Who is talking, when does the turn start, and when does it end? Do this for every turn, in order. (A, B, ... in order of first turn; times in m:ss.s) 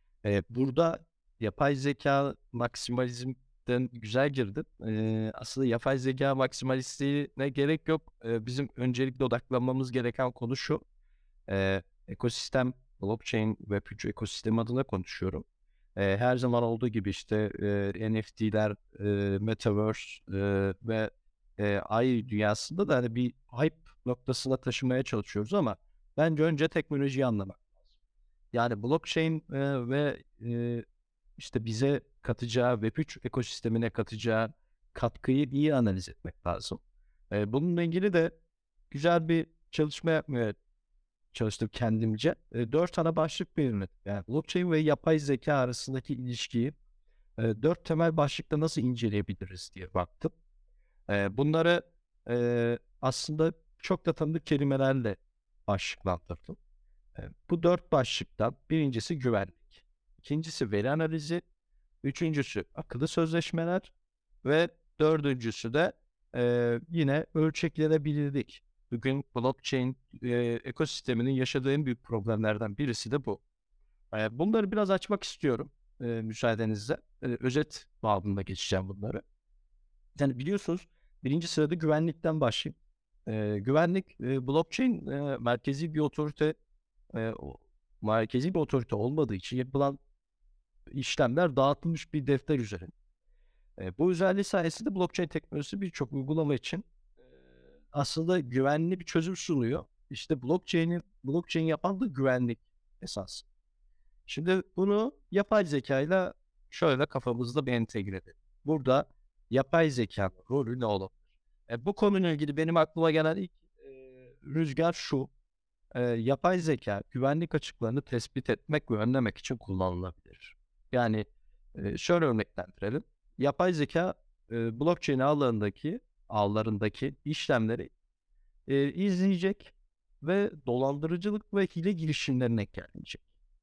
0:00.2-0:10.8 A
0:11.5-0:15.4 A
0:16.0-0:27.7 A
0:28.5-0:30.8 A
0:31.4-0:38.4 A
0:38.9-0:40.6 A
0:41.3-0:46.8 A
0:47.4-0:50.4 A
0:51.1-0:56.6 A
0:57.2-1:01.4 A
1:02.0-1:03.9 A
1:04.4-1:13.4 A
1:14.1-1:19.2 A
1:20.2-1:26.6 A
1:27.1-1:30.0 A
1:30.9-1:32.9 A
1:33.8-1:36.9 A
1:37.9-1:43.4 A
1:44.3-1:51.2 A
1:51.7-1:55.3 A
1:56.0-2:07.9 A
2:08.7-2:13.2 A